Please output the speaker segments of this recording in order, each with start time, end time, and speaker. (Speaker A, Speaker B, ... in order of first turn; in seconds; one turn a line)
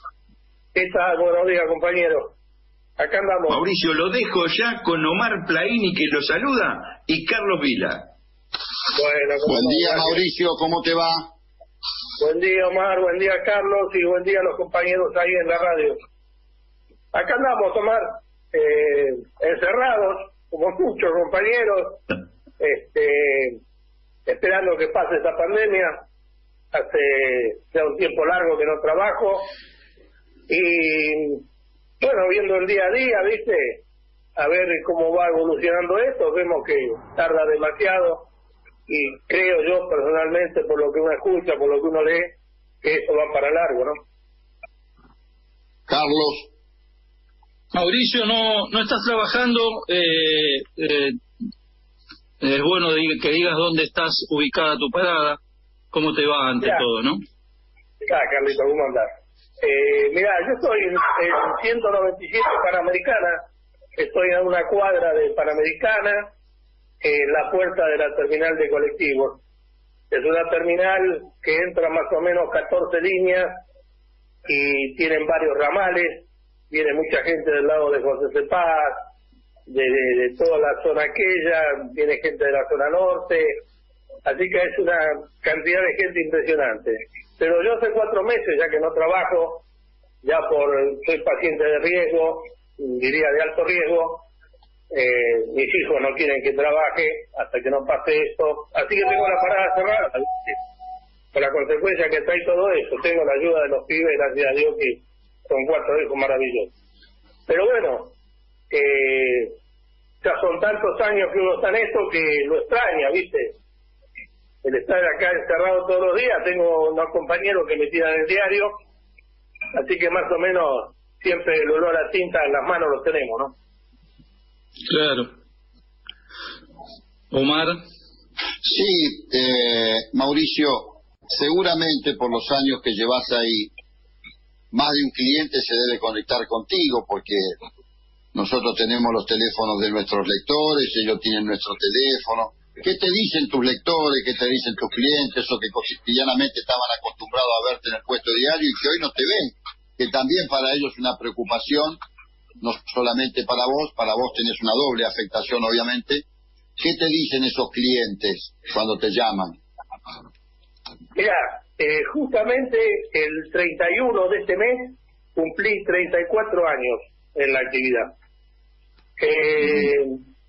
Speaker A: 0.8-2.4
Speaker A: 3.0-3.6
Speaker B: 3.5-8.1
Speaker A: 8.9-10.2
Speaker C: 9.5-11.3
Speaker A: 12.2-16.0
Speaker A: 17.1-22.0
Speaker A: 22.6-23.6
Speaker A: 24.3-26.0
Speaker A: 26.7-29.5
Speaker A: 30.5-31.4
Speaker A: 32.0-33.8
Speaker A: 34.4-38.3
Speaker A: 38.9-44.0
Speaker C: 45.9-46.5
Speaker D: 47.7-51.2
Speaker D: 52.4-55.4
Speaker D: 55.9-57.2
Speaker A: 58.0-59.1
Speaker A: 59.6-63.4
Speaker A: 64.0-66.3
Speaker A: 67.0-69.4
Speaker A: 70.1-73.5
Speaker A: 74.5-79.0
Speaker A: 79.7-83.6
Speaker A: 84.3-89.6
Speaker A: 90.2-94.3
Speaker A: 94.9-100.6
Speaker A: 101.3-106.7
Speaker A: 107.5-108.1
Speaker A: 108.7-109.5
Speaker A: 110.2-113.5
Speaker A: 114.6-118.7
Speaker A: 119.7-123.5
Speaker D: 124.9-125.3
Speaker D: 127.3-127.8
Speaker C: 128.6-133.7
Speaker C: 134.7-137.6
Speaker C: 138.3-152.0
Speaker C: 152.6-156.2
Speaker C: 156.8-159.6
Speaker A: 161.2-168.1
Speaker A: 169.2-170.2